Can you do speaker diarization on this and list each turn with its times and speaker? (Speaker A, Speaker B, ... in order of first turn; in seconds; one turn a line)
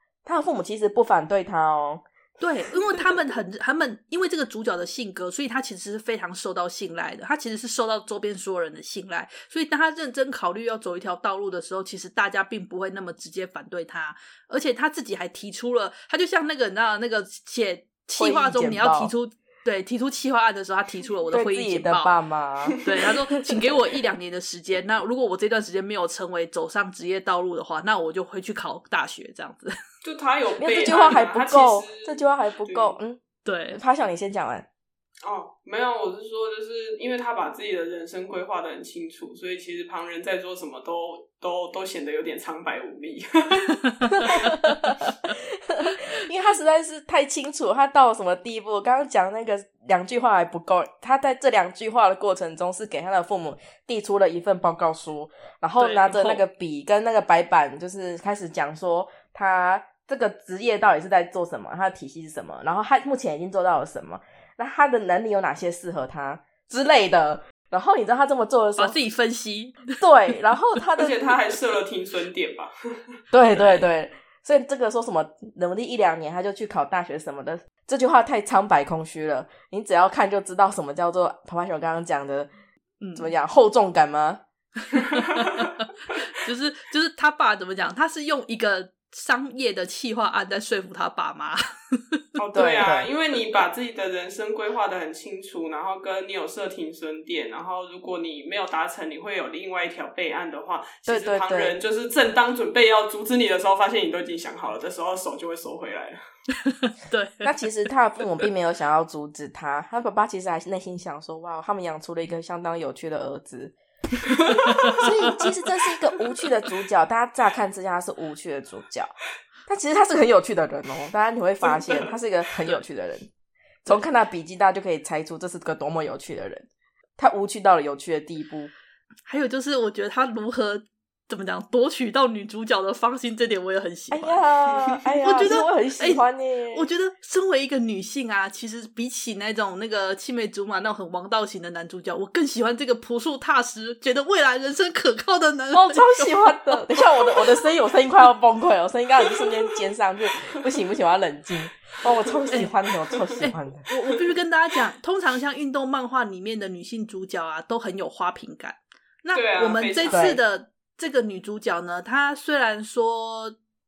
Speaker A: 0.2-2.0
Speaker B: 2.4-22.1
Speaker A: 18.2-19.1
Speaker A: 21.3-22.8
Speaker B: 22.8-29.8
Speaker C: 30.0-33.0
Speaker A: 30.6-33.2
Speaker B: 33.5-33.8
Speaker A: 33.7-34.7
Speaker C: 35.2-43.7
Speaker B: 44.0-44.5
Speaker A: 44.1-69.0
Speaker B: 55.8-56.4
Speaker B: 68.8-69.9
Speaker A: 70.0-71.2
Speaker C: 71.0-72.7
Speaker A: 73.3-82.5
Speaker B: 73.5-73.8
Speaker B: 83.0-83.3
Speaker A: 83.2-84.4
Speaker B: 85.0-92.2
Speaker C: 85.0-85.6
Speaker C: 92.4-106.2
Speaker A: 92.5-93.1
Speaker A: 101.1-101.8
Speaker B: 106.7-107.5
Speaker A: 107.4-113.8
Speaker B: 114.7-115.1
Speaker A: 115.0-119.2
Speaker A: 119.7-123.3
Speaker C: 121.6-122.1
Speaker A: 123.8-128.7
Speaker B: 129.3-134.4
Speaker A: 134.1-136.9
Speaker B: 135.2-147.3
Speaker A: 145.7-153.8
Speaker B: 153.4-163.6
Speaker C: 159.3-160.3
Speaker A: 160.1-160.4